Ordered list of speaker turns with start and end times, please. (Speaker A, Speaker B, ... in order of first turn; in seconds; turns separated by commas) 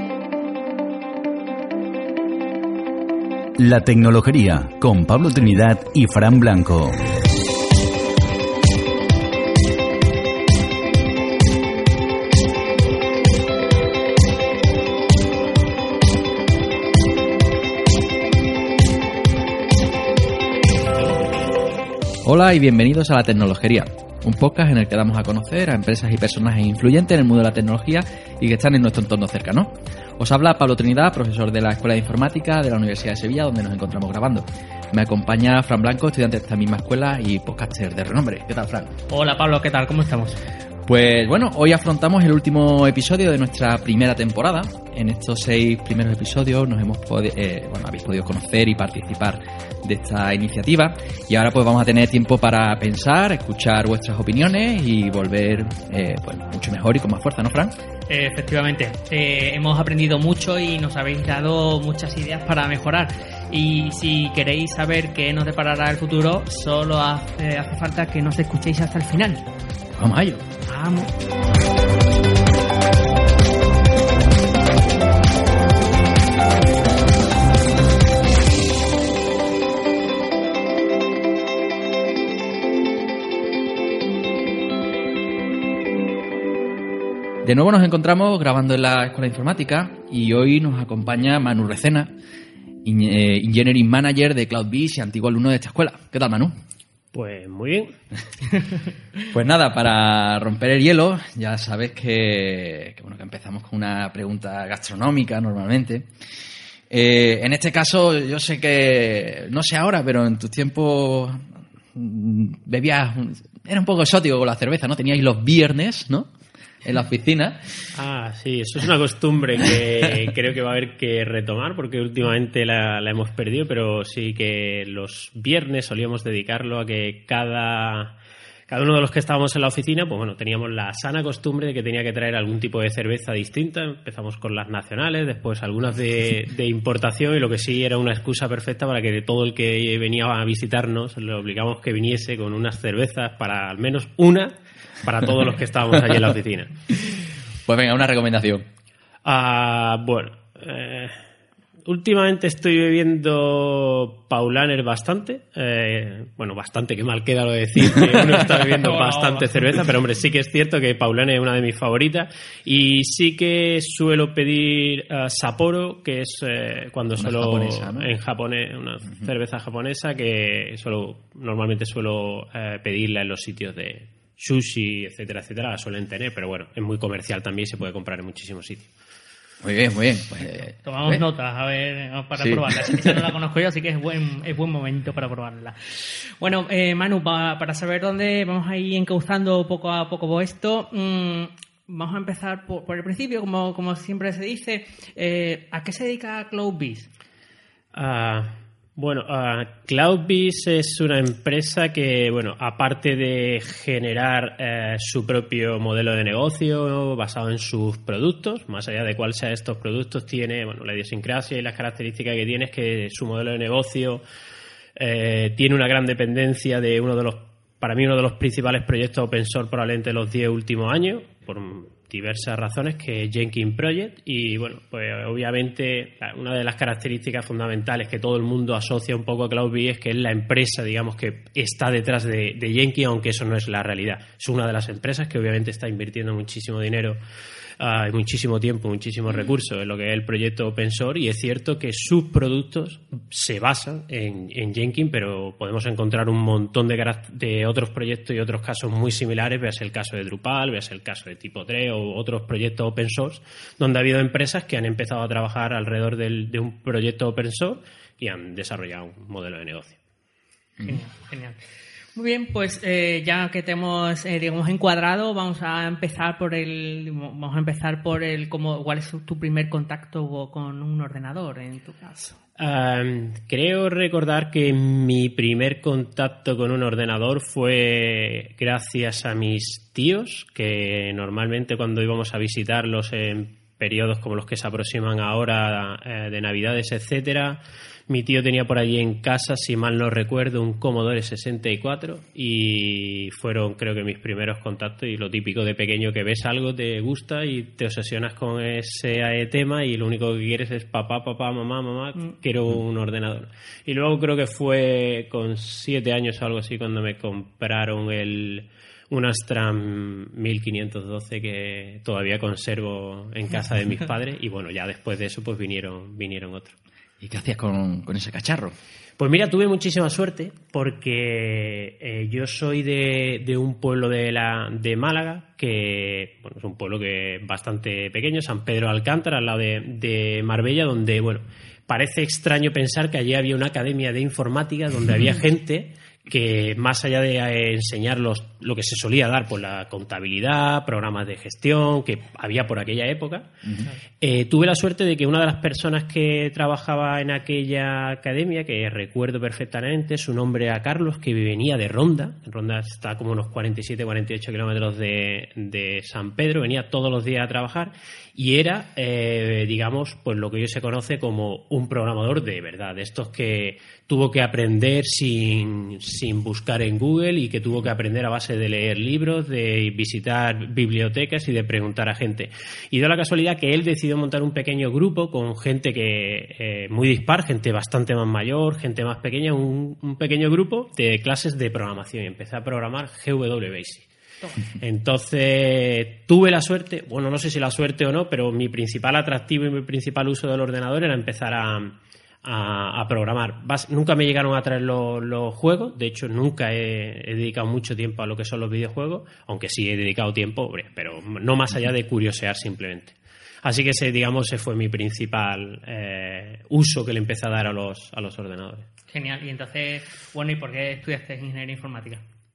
Speaker A: 3.6-7.0, Speaker B: 22.2-38.9, Speaker C: 39.1-40.4, Speaker B: 40.9-57.8, Speaker C: 58.1-69.5, Speaker B: 70.0-70.5, Speaker C: 70.6-71.1, Speaker B: 87.4-92.1, Speaker B: 92.8-96.6, Speaker D: 97.1-97.9, Speaker B: 99.3-106.1, Speaker B: 106.9-116.3, Speaker B: 116.8-117.7, Speaker D: 117.9-128.2, Speaker D: 128.7-146.7, Speaker B: 147.7-148.7, Speaker D: 149.2-151.2, Speaker D: 151.8-178.9, Speaker C: 158.5-159.8, Speaker B: 167.2-168.1, Speaker B: 179.6-181.2, Speaker C: 180.8-197.1, Speaker B: 182.4-183.3, Speaker D: 197.9-214.2, Speaker D: 215.0-237.2, Speaker D: 237.8-260.0, Speaker C: 260.9-261.6, Speaker C: 262.1-272.4, Speaker D: 272.6-316.8, Speaker B: 317.2-318.8, Speaker D: 319.2-343.6, Speaker D: 344.2-384.1, Speaker D: 384.8-408.9, Speaker C: 409.1-412.2